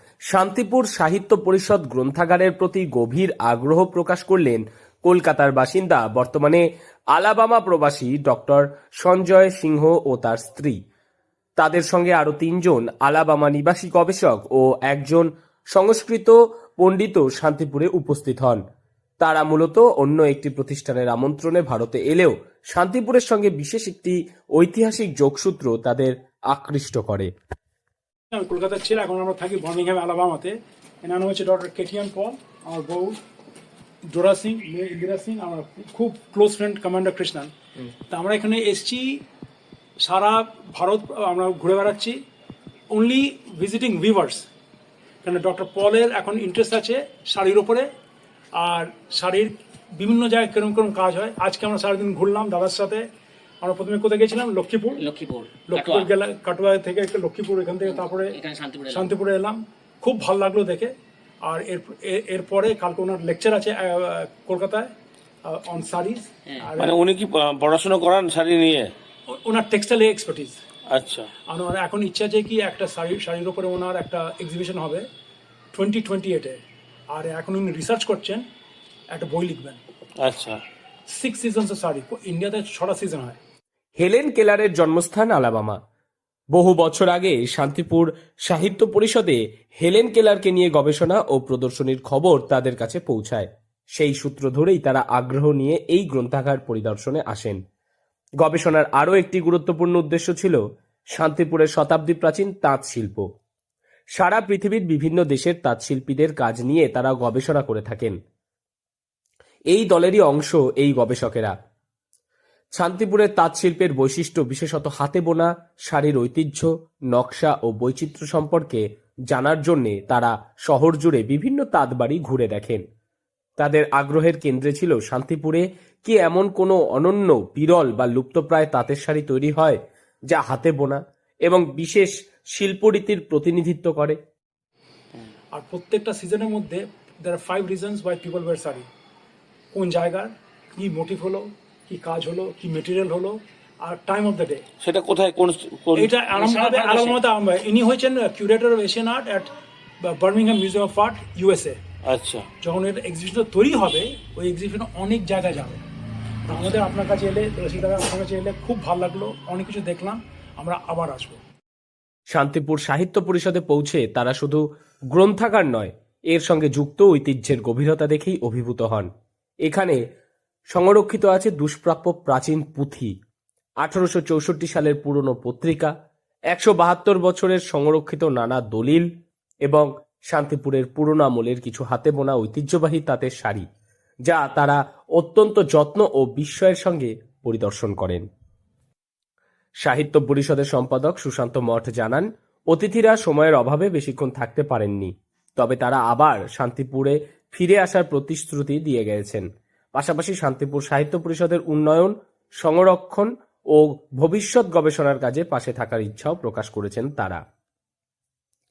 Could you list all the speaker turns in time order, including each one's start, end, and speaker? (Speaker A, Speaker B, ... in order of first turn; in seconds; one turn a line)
Speaker A: 0.3-10.8
Speaker A: 11.6-18.6
Speaker A: 19.2-27.3
Speaker B: 28.3-33.2
Speaker B: 34.1-37.5
Speaker B: 38.1-39.2
Speaker B: 40.0-42.2
Speaker B: 42.9-44.5
Speaker B: 45.2-47.9
Speaker B: 48.5-53.0
Speaker B: 53.6-55.0
Speaker C: 55.0-56.1
Speaker B: 55.7-58.4
Speaker C: 57.8-59.1
Speaker B: 58.9-60.9
Speaker B: 61.5-64.9
Speaker B: 65.5-67.0
Speaker D: 66.8-68.9
Speaker B: 69.3-70.6
Speaker D: 70.9-71.3
Speaker B: 71.5-75.0
Speaker B: 75.7-76.6
Speaker B: 77.1-78.4
Speaker B: 79.1-79.8
Speaker D: 80.2-80.6
Speaker B: 81.1-83.4
Speaker A: 84.0-85.8
Speaker A: 86.5-97.6
Speaker A: 98.4-100.6
Speaker A: 101.2-103.2
Speaker A: 104.2-108.2
Speaker A: 109.7-111.5
Speaker A: 112.8-122.8
Speaker A: 123.6-129.8
Speaker A: 130.3-134.2
Speaker B: 135.5-138.9
Speaker B: 139.7-144.6
Speaker D: 144.8-146.8
Speaker B: 145.9-149.5
Speaker C: 146.6-147.2
Speaker B: 150.0-151.8
Speaker D: 152.1-152.5
Speaker B: 152.6-155.8
Speaker B: 156.5-161.4
Speaker A: 162.3-169.1
Speaker A: 169.6-170.0
Speaker A: 170.7-173.1
Speaker A: 173.8-175.9
Speaker A: 176.5-179.1
Speaker A: 179.6-183.6
Speaker A: 184.2-188.2
Speaker A: 189.8-207.4